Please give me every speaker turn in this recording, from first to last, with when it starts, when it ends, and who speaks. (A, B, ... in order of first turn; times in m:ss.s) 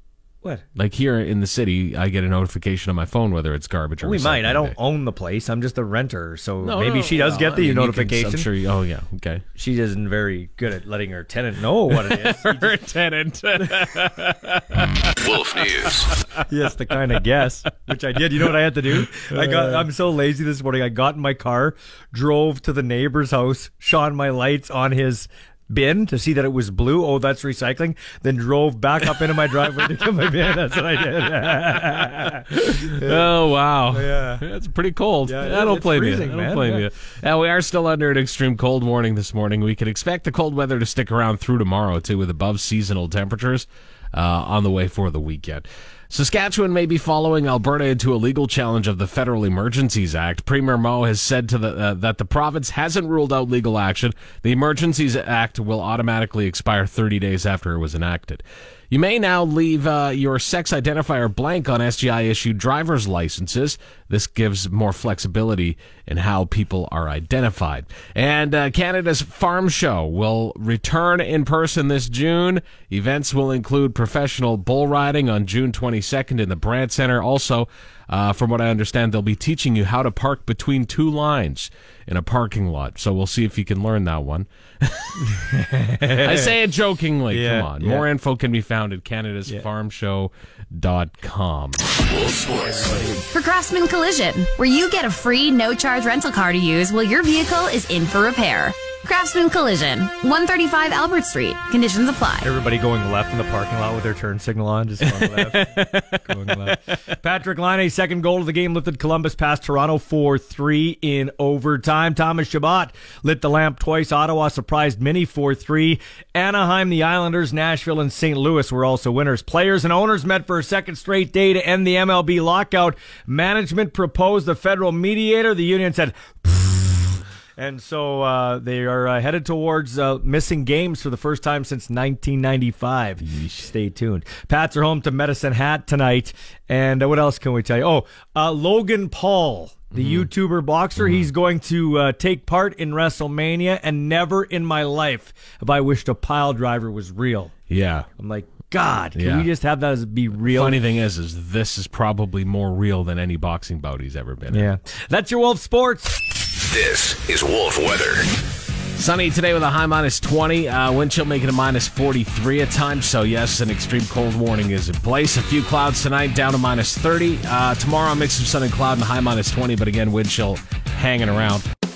0:00.8-0:04.7 A
0:04.0-0:08.5 B
0:06.6-0:09.4 A
0:09.6-0:12.8 B
0:11.9-0:15.1 A
0:13.6-0:14.0 B
0:15.0-0:16.2 C
0:16.4-0:33.3 B
0:19.2-0:19.8 A
0:31.4-1:25.4 A
0:33.9-0:34.4 B
0:35.2-0:36.8 B
1:25.2-1:26.5 B
1:26.2-1:31.8 A
1:27.3-1:28.0 B
1:32.0-1:32.8 C
1:32.6-1:33.2 B
1:33.3-1:42.5 D
1:42.4-2:27.5 B
1:45.1-1:46.7 A
2:13.2-2:13.6 A
2:19.9-2:20.3 A
2:21.0-2:21.2 A
2:27.7-2:28.1 A
2:28.2-2:30.8 B
2:29.2-2:29.5 A
2:30.4-2:34.7 A
2:34.5-2:36.2 B
2:36.5-2:38.3 C
2:39.0-2:51.6 A